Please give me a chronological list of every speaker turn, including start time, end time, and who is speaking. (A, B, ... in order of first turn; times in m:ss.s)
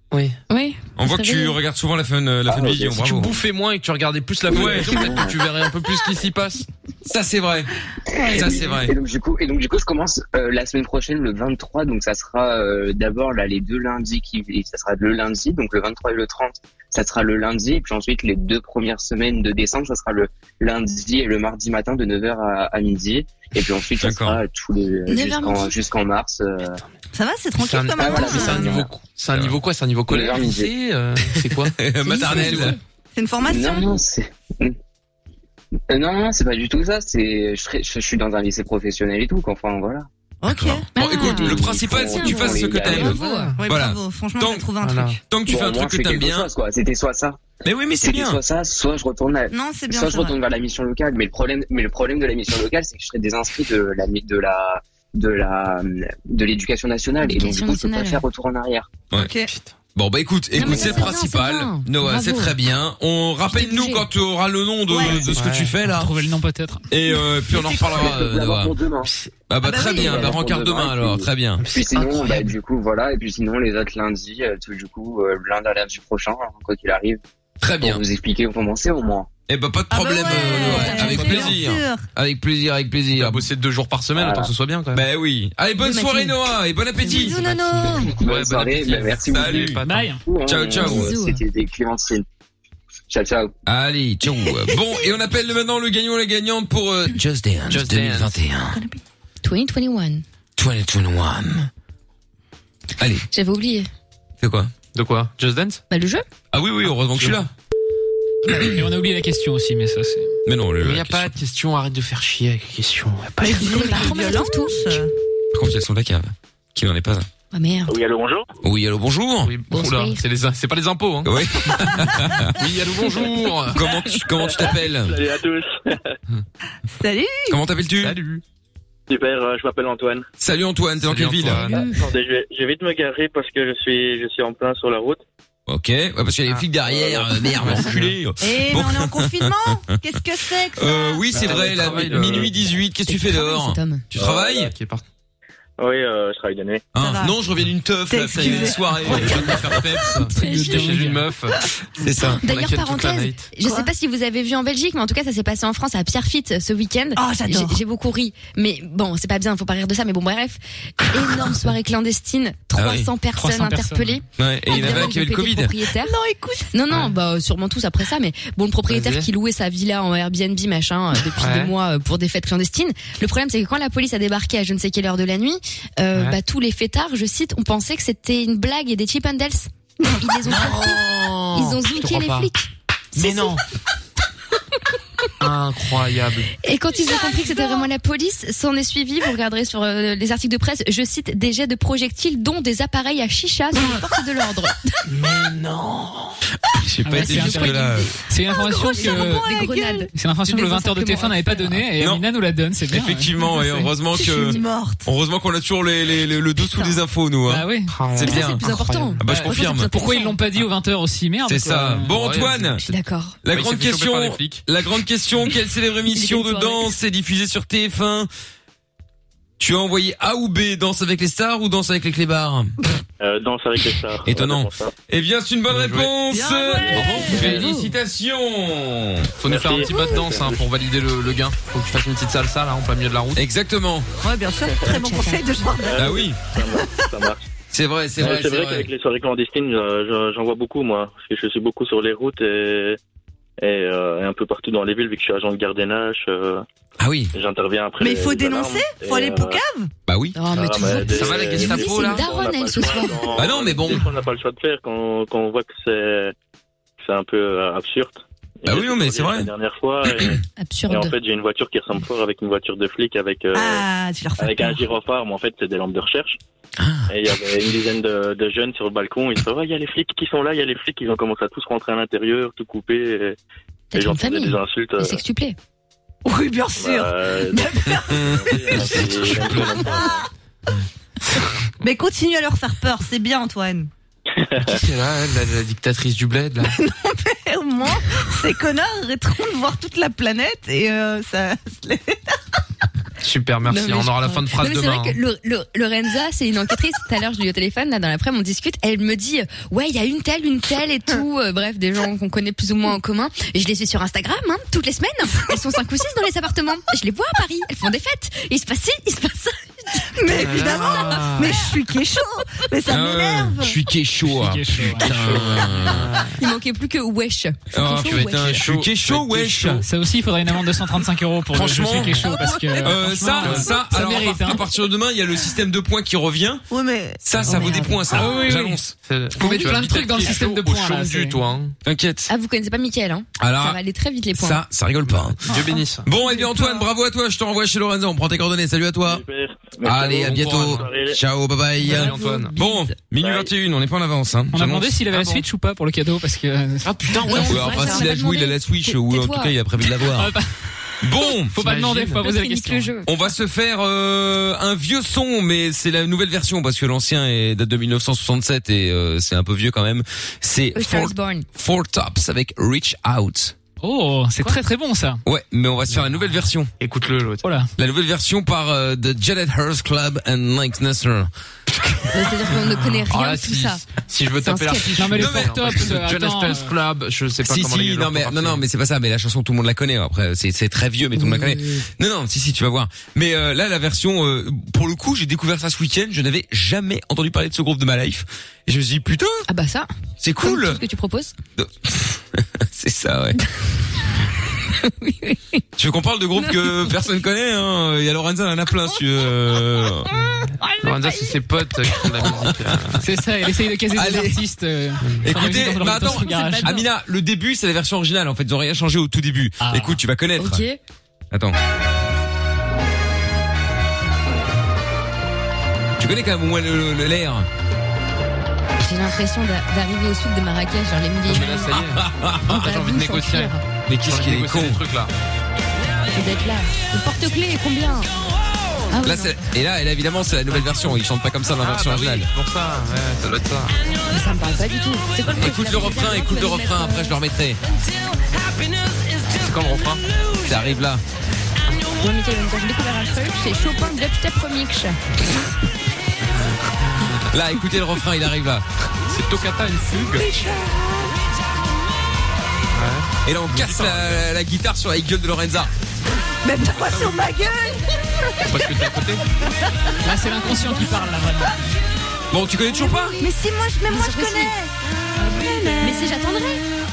0:00.1-0:00.4 A
0:00.5-0:01.6 B
0:01.0-0:03.4 C
0:02.5-0:03.3 D
0:03.0-0:06.7 A
0:04.5-0:05.7 D
0:04.5-0:04.9 C
0:07.1-0:07.7 C
0:08.2-0:26.8 D
0:08.2-0:08.6 E
0:08.3-0:08.9 C
0:24.0-0:24.4 C
0:25.1-0:25.8 B
0:27.1-0:28.8 E
0:27.6-0:32.7 A
0:28.0-0:28.9 D
0:30.1-0:30.7 D
0:31.8-0:32.8 C
0:32.1-0:32.7 B
0:33.2-0:34.0 E
0:33.4-0:34.8 D
0:35.9-0:40.1 D
0:40.4-0:40.9 E
0:40.5-0:44.7 C
0:40.9-0:43.6 B
0:41.2-0:43.2 D
0:43.6-0:45.2 E
0:44.8-0:45.2 A
0:45.3-0:46.5 C
0:45.4-0:58.9 D
0:47.6-0:48.4 C
0:49.5-0:50.4 E
0:57.2-0:58.2 B
0:59.1-0:59.5 E
1:00.0-1:06.1 C
1:00.5-1:02.6 B
1:00.6-1:01.1 D
1:03.5-1:04.1 B
1:04.9-1:05.3 E
1:05.3-1:05.7 A
1:05.8-1:06.9 F
1:06.9-1:08.8 C
1:07.1-1:08.0 E
1:07.7-1:09.1 D
1:09.5-1:11.6 C
1:09.6-1:10.3 E
1:09.9-1:17.2 D
1:11.6-1:12.5 A
1:17.6-1:18.0 C
1:17.8-1:19.3 D
1:19.5-1:23.5 C
1:19.9-1:22.0 E
1:20.3-1:21.6 A
1:20.7-1:21.0 B
1:23.1-1:25.0 A
1:24.2-1:24.5 D
1:24.9-1:27.4 C
1:25.8-1:26.5 B
1:27.0-1:28.2 E
1:28.0-1:32.2 D
1:28.1-1:30.1 A
1:29.3-1:29.8 C
1:29.8-1:30.2 F
1:30.4-1:31.1 C
1:30.8-1:31.4 B
1:33.1-1:33.5 D
1:33.7-1:38.8 C
1:37.7-1:38.4 A
1:38.7-1:39.0 E
1:39.4-1:40.2 B
1:40.6-1:41.7 C
1:43.0-1:43.3 C
1:43.3-1:43.9 B
1:44.4-1:44.7 C
1:44.9-1:45.8 A
1:45.9-1:46.2 B
1:46.5-1:47.5 C
1:47.1-1:47.5 A
1:48.5-1:50.3 F
1:50.5-1:51.3 C
1:50.8-1:53.6 A
1:53.4-1:55.1 E
1:53.5-1:54.8 B
1:55.5-1:57.3 C
1:57.5-1:58.0 B
1:57.9-1:58.5 G
1:58.6-1:59.5 C
1:59.4-2:01.4 A
1:59.7-2:00.2 B
2:01.2-2:02.6 C
2:02.6-2:03.8 A
2:03.7-2:05.1 C
2:04.4-2:06.0 G
2:06.9-2:07.6 E
2:07.5-2:08.2 C
2:08.0-2:08.4 A
2:09.1-2:10.3 G
2:10.4-2:11.7 C
2:11.0-2:11.9 A
2:11.7-2:12.1 B
2:11.8-2:15.2 G
2:15.7-2:19.5 C
2:16.8-2:17.3 G
2:17.4-2:18.2 A
2:18.4-2:21.3 E
2:20.7-2:24.7 C
2:21.3-2:22.7 A
2:21.4-2:22.5 G
2:23.1-2:24.0 B
2:24.2-2:24.4 G
2:24.2-2:25.0 A
2:25.8-2:26.9 G
2:27.0-2:27.4 E
2:27.0-2:30.0 C
2:28.1-2:29.6 E
2:28.4-2:33.5 A
2:30.3-2:31.0 B
2:30.4-2:31.3 F
2:32.0-2:32.4 C
2:32.4-2:46.2 B
2:33.6-2:33.9 E
2:37.2-2:37.8 E
2:42.8-2:43.1 C
2:43.4-2:44.2 F
2:44.4-2:45.7 C
2:44.7-2:45.0 E
2:46.0-2:46.7 E
2:46.7-3:03.6 B
2:48.9-2:49.3 A
2:51.4-2:51.7 A
3:00.4-3:02.5 A
3:03.2-3:03.6 A
3:05.4-3:06.5 A
3:06.6-3:14.8 B
3:07.2-3:07.9 E
3:15.2-3:16.2 A
3:15.2-3:15.9 E
3:16.7-3:18.1 C
3:17.1-3:19.5 F
3:17.1-3:18.2 B
3:18.5-3:20.1 E
3:18.8-3:21.8 B
3:20.1-3:23.9 F
3:22.0-3:22.2 C
3:22.9-3:28.6 C
3:24.1-3:25.1 E
3:26.7-3:27.0 E
3:27.5-3:28.0 F
3:27.9-3:29.2 A
3:28.2-3:30.4 B
3:29.2-3:30.0 C
3:29.2-3:32.2 F
3:31.5-3:32.8 C
3:32.0-3:32.8 A
3:32.8-3:33.4 B
3:33.4-3:38.3 C
3:33.5-3:34.6 A
3:36.1-3:36.9 B
3:39.6-3:42.7 C
3:43.2-3:44.9 G
3:44.3-3:49.3 C
3:45.7-3:46.1 A
3:46.3-3:47.6 E
3:46.9-3:47.7 A
3:47.3-3:47.9 B
3:49.4-3:53.4 A
3:49.4-3:50.6 G
3:53.4-3:54.1 C
3:54.2-3:57.1 E
3:54.9-3:55.5 B
3:55.8-3:57.5 G
3:56.0-3:56.4 C
3:57.7-3:58.9 C
3:58.2-4:03.0 G
4:03.6-4:06.6 G
4:07.0-4:07.3 C
4:07.3-4:09.6 G
4:08.0-4:09.9 E
4:10.1-4:11.3 C
4:10.4-4:13.2 B
4:10.5-4:16.3 G
4:10.9-4:12.3 A
4:13.4-4:14.1 C
4:17.0-4:23.9 G
4:18.7-4:19.5 C
4:20.6-4:21.2 B
4:23.6-4:24.8 E
4:24.4-4:26.4 G
4:26.8-4:27.1 C
4:27.1-4:33.4 G
4:33.9-4:35.6 B
4:33.9-4:35.2 G
4:36.2-4:40.3 E
4:36.8-4:40.3 G
4:37.9-4:39.6 C
4:41.8-4:43.9 E
4:44.4-4:44.8 G
4:44.6-4:46.8 A
4:46.8-4:52.4 E
4:53.2-4:55.2 A
4:53.7-5:10.0 B
5:10.2-5:13.8 E
5:10.3-5:11.7 A
5:10.7-5:11.2 B
5:12.9-5:16.1 C
5:14.2-5:15.2 F
5:15.2-5:15.7 E
5:15.7-5:16.3 A
5:16.4-5:18.6 B
5:17.7-5:19.8 C
5:18.0-5:19.8 A
5:19.8-5:24.6 F
5:21.5-5:22.3 C
5:22.2-5:22.8 E
5:22.8-5:26.6 C
5:23.4-5:23.7 A
5:26.7-5:27.2 E
5:27.2-5:28.8 C
5:27.4-5:28.3 B
5:28.1-5:28.8 F
5:28.4-5:31.8 A
5:29.4-5:31.4 F
5:31.8-5:32.3 C
5:32.3-5:34.6 B
5:33.4-5:33.8 C
5:34.3-5:35.4 C
5:35.5-5:36.1 A
5:35.5-5:35.8 E
5:36.0-5:39.2 C
5:36.2-5:36.8 B
5:39.0-5:41.2 G
5:39.8-5:45.1 C
5:40.0-5:40.9 A
5:41.8-5:42.5 A
5:41.8-5:42.9 B
5:43.1-5:43.5 G
5:44.5-5:47.5 F
5:45.1-5:45.4 A
5:46.8-5:48.1 A
5:47.3-5:49.6 B
5:47.4-5:50.4 C
5:50.1-5:50.6 F
5:51.0-5:51.6 C
5:51.5-5:53.0 F
5:51.6-5:52.2 A
5:52.2-5:53.1 B
5:53.1-6:03.6 C
6:00.8-6:01.5 B
6:03.8-6:05.2 F
6:05.2-6:06.7 C
6:05.9-6:07.4 A
6:07.4-6:07.7 F
6:07.8-6:11.3 C
6:12.1-6:13.8 B
6:13.1-6:18.6 A
6:14.4-6:15.2 B
6:15.0-6:16.7 F
6:15.1-6:15.9 C
6:17.5-6:29.5 C
6:21.2-6:21.8 B
6:29.5-6:31.3 B
6:30.2-6:30.8 C
6:31.6-6:33.4 C
6:34.7-6:35.6 B
6:35.8-6:40.1 C
6:36.4-6:37.0 B
6:40.2-6:41.3 B
6:40.8-6:43.0 A
6:42.2-6:42.5 C
6:43.0-6:46.8 F
6:43.9-6:44.4 C
6:45.2-6:50.6 C
6:45.8-6:46.8 B
6:49.6-6:50.0 F
6:50.4-6:50.8 B
6:56.0-6:57.5 C
6:58.8-7:01.8 B
7:01.3-7:05.1 A
7:01.9-7:02.8 C
7:02.5-7:03.6 B
7:03.9-7:04.8 C
7:06.1-7:08.1 B
7:08.9-7:09.4 B
7:09.0-7:12.3 C
7:11.6-7:13.8 A
7:14.1-7:17.2 B
7:15.3-7:17.6 C
7:19.3-7:20.0 A
7:20.4-7:21.0 C
7:21.9-7:25.0 B
7:27.3-7:28.6 C
7:29.1-7:30.3 A
7:30.2-7:31.1 E
7:32.7-7:34.3 A
7:33.2-7:35.7 C
7:36.4-7:38.7 E
7:36.8-7:37.2 A
7:38.4-7:39.2 A
7:40.0-7:41.6 F
7:42.3-7:43.2 C
7:42.8-7:43.2 B
7:43.2-7:46.2 E
7:43.9-7:44.5 B
7:45.8-7:46.6 B